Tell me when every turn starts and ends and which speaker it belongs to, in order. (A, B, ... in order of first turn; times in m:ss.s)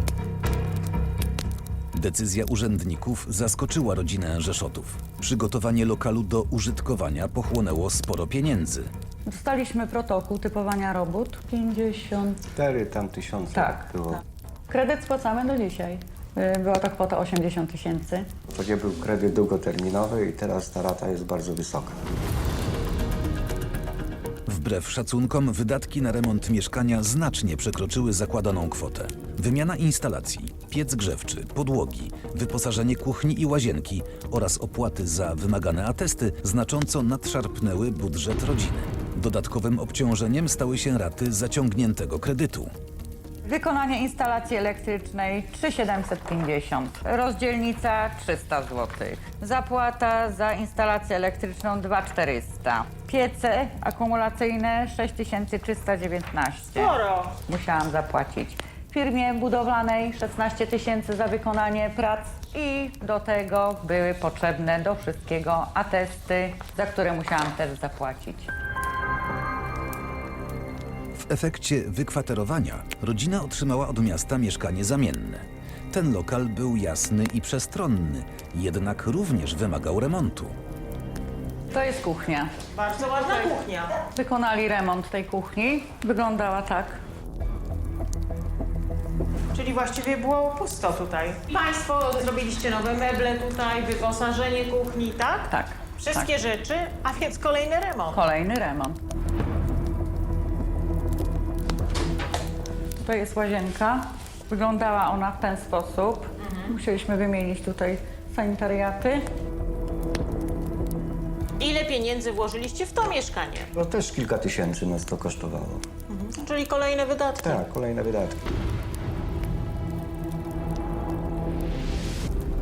0:01.9-0:08.9 A
0:09.3-0:12.4 B
0:12.5-0:14.2 C
0:13.5-0:13.9 B
0:14.7-0:18.2 B
0:18.5-0:22.0 C
0:24.5-0:42.7 A
0:43.4-1:08.5 B
0:56.7-0:57.3 D
1:11.2-1:20.5 A
1:21.7-1:22.5 B
1:22.7-1:23.9 D
1:23.0-1:27.0 B
1:29.5-1:38.2 D
1:35.5-1:36.5 B
1:38.1-1:39.0 B
1:43.0-1:49.2 B
1:46.4-1:46.7 D
1:51.6-1:53.7 D
1:53.7-1:55.8 C
1:56.1-1:57.6 D
1:57.4-1:58.6 C